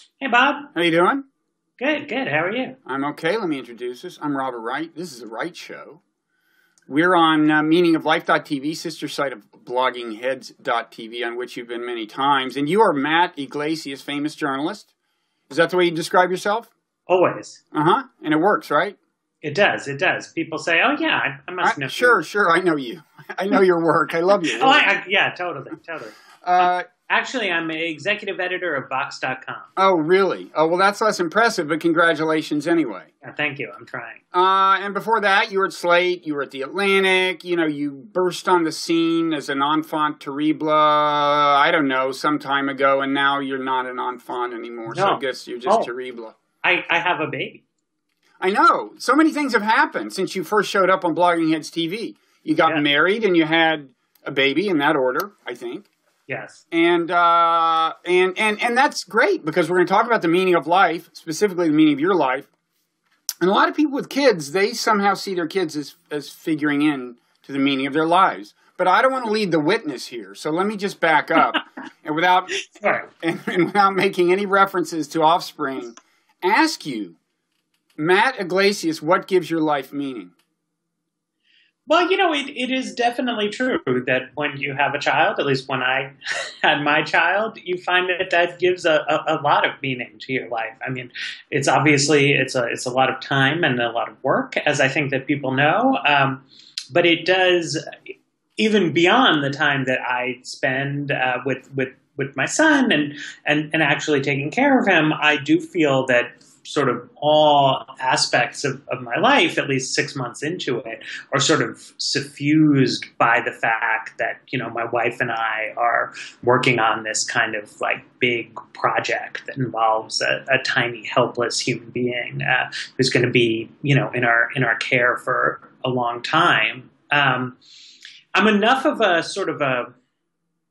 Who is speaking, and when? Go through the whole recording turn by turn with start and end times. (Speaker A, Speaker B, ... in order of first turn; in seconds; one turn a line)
Speaker A: 0.2-0.7
Speaker B: 0.7-1.2
Speaker A: 1.8-2.8
Speaker B: 2.9-6.0
Speaker B: 6.9-14.9
Speaker B: 15.5-16.7
Speaker A: 17.1-17.6
Speaker B: 17.7-19.0
Speaker A: 19.4-22.2
Speaker B: 21.6-24.9
Speaker A: 24.4-29.7
Speaker B: 26.4-26.9
Speaker B: 29.8-33.1
Speaker A: 33.2-34.2
Speaker B: 34.3-46.3
Speaker A: 44.9-45.9
Speaker A: 46.6-47.6
Speaker B: 48.4-55.9
Speaker A: 56.3-56.6
Speaker B: 56.7-62.5
Speaker B: 63.4-77.2
Speaker A: 72.7-73.1
Speaker B: 78.0-80.3
Speaker A: 81.9-97.8
Speaker A: 98.6-127.6
Speaker A: 128.3-129.9